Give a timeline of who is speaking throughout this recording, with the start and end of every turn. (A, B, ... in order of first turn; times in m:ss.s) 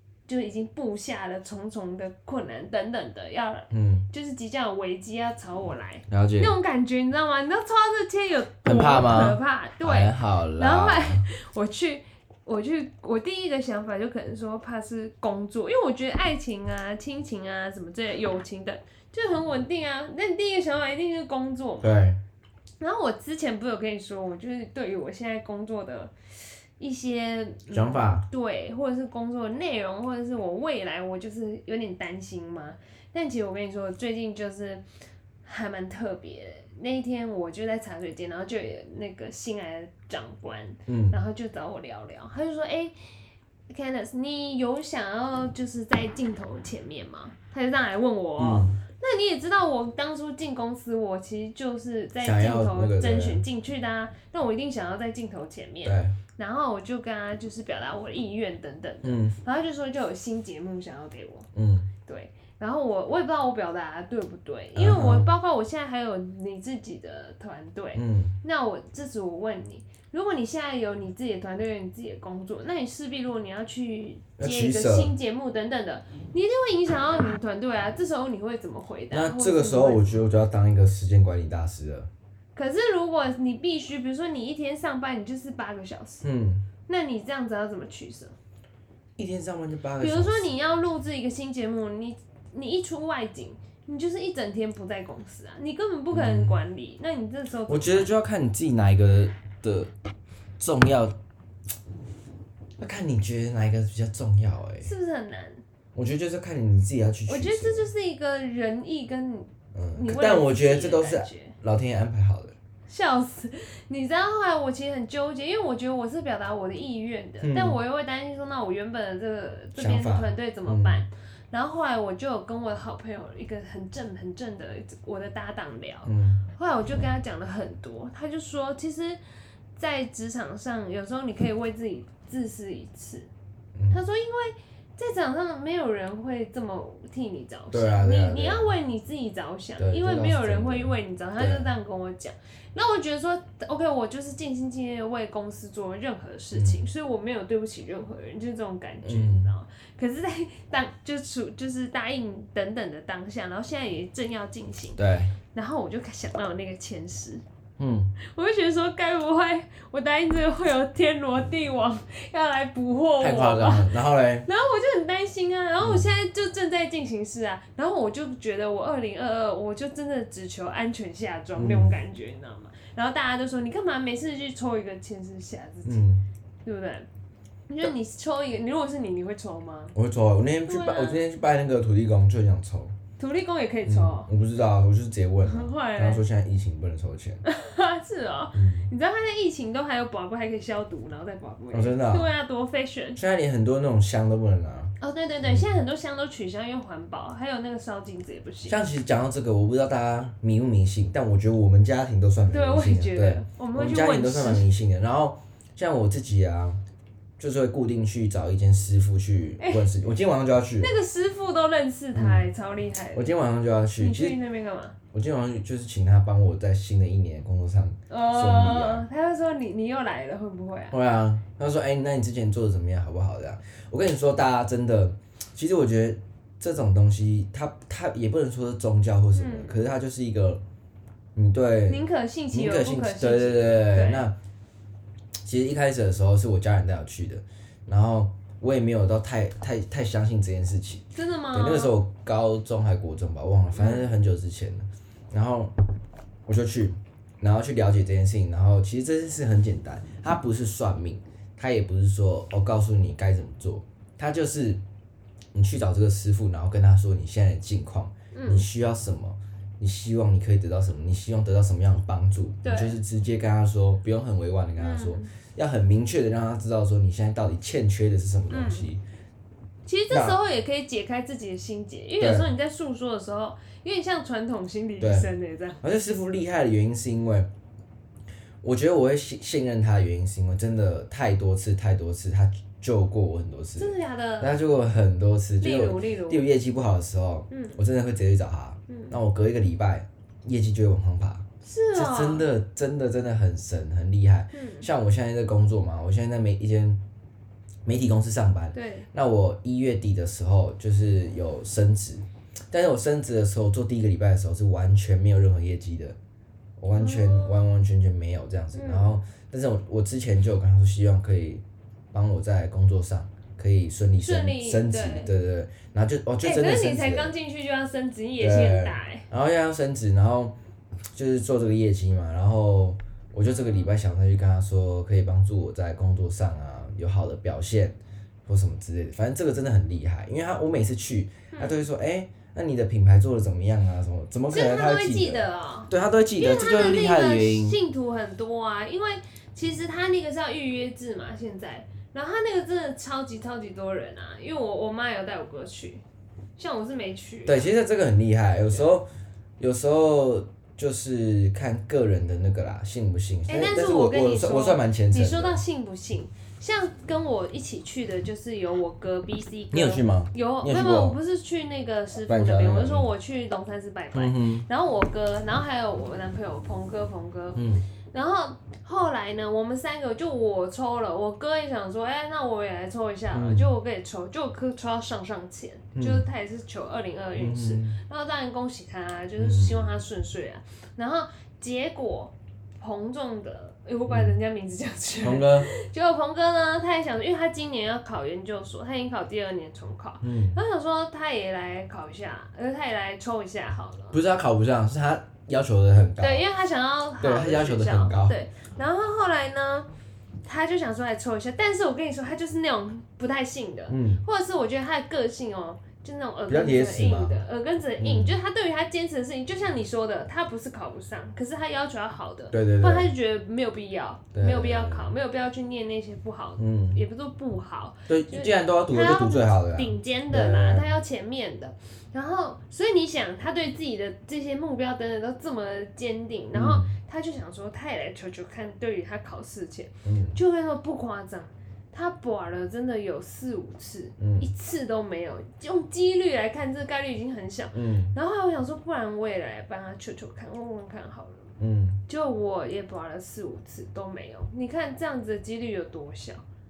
0:00.3-0:22.0 A
0:03.7-0:04.1 B
0:06.1-0:06.5 B
0:08.6-0:11.3 B
0:21.8-0:22.2 B
0:22.8-0:26.1 A
0:26.8-0:34.8 A
0:27.7-0:28.2 B
0:35.4-0:42.9 A
0:40.9-0:41.2 B
0:43.7-1:01.5 A
0:48.4-0:48.8 B
0:52.2-0:53.4 B
0:55.8-0:56.2 B
0:59.0-0:59.4 B
1:01.5-1:01.9 B
1:02.1-1:20.2 A
1:04.8-1:05.3 B
1:08.0-1:08.3 B
1:14.4-1:15.1 B
1:19.1-1:22.1 B
1:22.6-1:26.3 A
1:26.2-1:26.6 B
1:26.9-1:28.3 A
1:29.2-1:30.5 B
1:30.0-1:38.1 A
1:36.1-1:36.6 B
1:37.7-1:39.9 B
1:40.6-1:41.2 B
1:42.8-1:44.9 B
1:44.8-1:45.6 A
1:46.0-1:47.9 B
1:47.3-1:51.6 A
1:49.7-1:52.6 B
1:52.9-2:09.2 A
1:57.4-1:57.8 B
1:59.8-2:01.0 B
2:06.0-2:06.4 B
2:09.8-2:13.3 A
2:13.8-2:14.0 B
2:13.9-2:35.0 A
2:17.7-2:18.7 B
2:19.8-2:21.7 B
2:26.5-2:26.8 B
2:29.0-2:29.5 B
2:35.0-2:35.3 B
2:35.5-2:37.4 A
2:37.8-2:38.1 B
2:38.2-2:56.1 A
2:43.2-2:44.5 B
2:45.8-2:46.1 B
2:51.6-2:52.0 B
2:55.8-2:56.2 B
2:56.6-2:57.1 A
2:57.7-3:00.0 A
3:00.0-3:03.0 B
3:00.7-3:01.2 A
3:03.2-3:04.3 A
3:03.8-3:07.4 B
3:05.4-3:06.2 A
3:07.4-3:13.2 A
3:08.5-3:08.9 B
3:11.7-3:12.3 B
3:13.2-3:14.9 B
3:15.0-3:18.8 A
3:15.4-3:15.7 B
3:18.7-3:26.8 B
3:22.5-3:24.7 A
3:27.4-3:30.9 B
3:29.6-3:29.9 A
3:30.8-3:33.3 A
3:32.2-3:32.5 B
3:33.1-3:34.4 B
3:34.0-3:35.0 A
3:35.1-3:39.1 B
3:38.1-3:41.0 A
3:40.9-3:50.6 B
3:49.4-3:49.8 A
3:51.4-3:54.4 B
3:51.9-3:54.3 A
3:55.4-4:05.7 B
4:01.2-4:02.0 A
4:03.8-4:04.1 A
4:06.5-4:14.8 B
4:15.5-4:29.0 B
4:18.3-4:18.7 A
4:22.6-4:23.0 A
4:24.8-4:25.3 A
4:28.5-4:28.9 A
4:29.9-4:35.8 A
4:30.1-4:30.4 B
4:32.2-4:32.5 B
4:35.0-4:35.3 B
4:35.8-4:37.5 B
4:38.6-4:57.0 B
4:43.8-4:44.6 A
4:45.6-4:46.5 A
4:47.5-4:47.8 A
4:48.9-4:49.2 A
4:51.6-4:52.5 A
4:54.5-4:54.9 A
4:57.8-5:06.2 B
4:58.7-4:59.1 A
5:06.8-5:17.3 B
5:06.9-5:07.6 A
5:08.7-5:09.2 A
5:14.2-5:15.3 A
5:16.4-5:19.3 A
5:18.4-5:20.6 B
5:21.1-5:37.8 B
5:23.5-5:23.9 A
5:31.5-5:31.8 A
5:34.5-5:46.0 A
5:46.6-5:47.7 A
5:47.5-5:55.6 B
5:53.5-6:34.2 A
5:59.7-6:01.2 B
6:02.3-6:03.1 B
6:04.1-6:04.7 B
6:07.6-6:07.8 B
6:13.3-6:13.7 B
6:16.0-6:16.3 B
6:17.4-6:18.0 B
6:19.4-6:20.0 B
6:24.1-6:24.4 B
6:25.2-6:25.7 B
6:30.2-6:30.6 B
6:34.1-6:36.4 B
6:36.2-6:39.9 A
6:37.2-6:38.4 B
6:40.4-7:21.5 A
6:43.9-6:44.2 B
6:46.5-6:47.4 B
6:48.0-6:48.4 B
6:52.5-6:53.1 B
6:54.3-6:55.2 B
6:56.6-6:57.0 B
6:58.1-7:00.9 B
7:06.5-7:06.9 B
7:10.0-7:10.4 B
7:14.2-7:14.5 B
7:17.7-7:18.1 B
7:21.6-7:22.0 B
7:22.1-7:26.4 A